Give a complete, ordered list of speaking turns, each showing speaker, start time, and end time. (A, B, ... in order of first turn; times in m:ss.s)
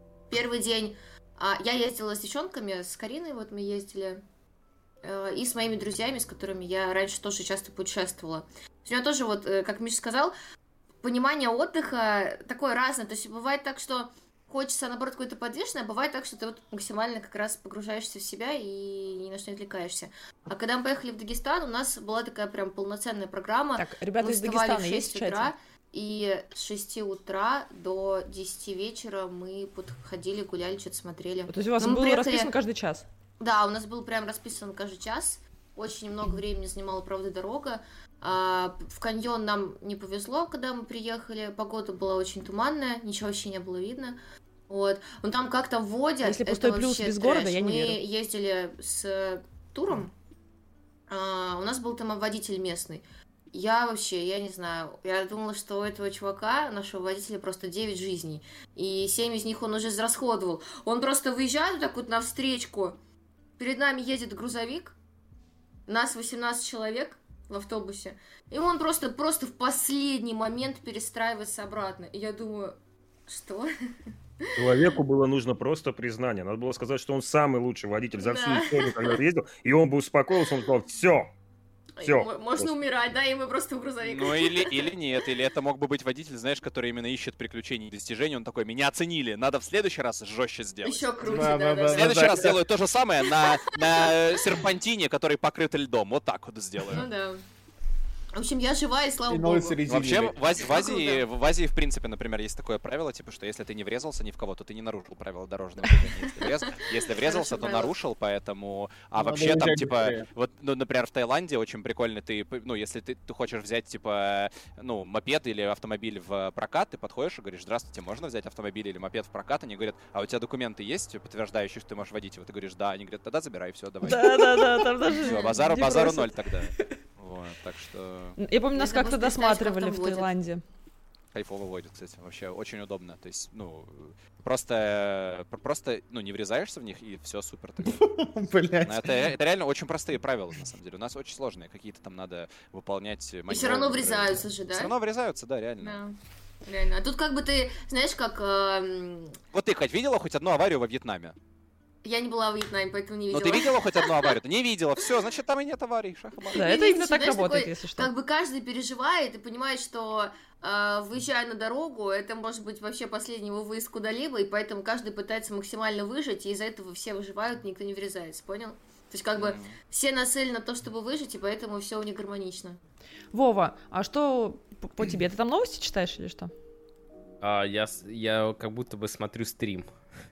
0:00.3-0:04.2 A
0:05.0-0:10.3 A
0:11.0-0:32.5 A
0:23.8-0:25.5 B
0:31.5-0:33.1 B
0:33.4-0:44.2 A
0:44.7-0:50.1 A
0:46.2-0:48.0 B
0:51.1-1:03.0 A
1:03.6-1:05.0 A
1:05.9-1:12.8 A
1:13.3-1:13.7 A
1:14.6-1:21.3 C
1:18.2-1:19.2 A
1:22.0-1:24.9 A
1:22.0-1:22.7 C
1:24.0-1:31.1 D
1:30.8-1:32.5 A
1:31.2-1:32.6 E
1:32.0-1:37.1 D
1:33.4-1:34.6 A
1:36.8-1:37.4 A
1:38.3-1:39.8 A
1:39.3-1:40.4 E
1:39.9-2:08.4 D
1:40.6-1:41.2 A
1:45.9-1:47.9 A
1:49.2-1:50.3 E
2:04.0-2:06.8 B
2:05.2-2:05.6 A
2:08.4-2:10.6 B
2:08.8-2:10.4 A
2:11.3-2:18.0 D
2:17.9-2:19.3 E
2:18.8-2:26.0 D
2:23.5-2:24.9 A
2:25.8-2:29.4 A
2:29.5-2:31.4 D
2:32.0-2:34.4 A
2:33.3-2:36.6 D
2:36.4-2:52.8 A
2:36.6-2:38.1 B
2:49.4-2:49.8 D
2:53.3-2:56.5 B
2:57.4-2:59.9 F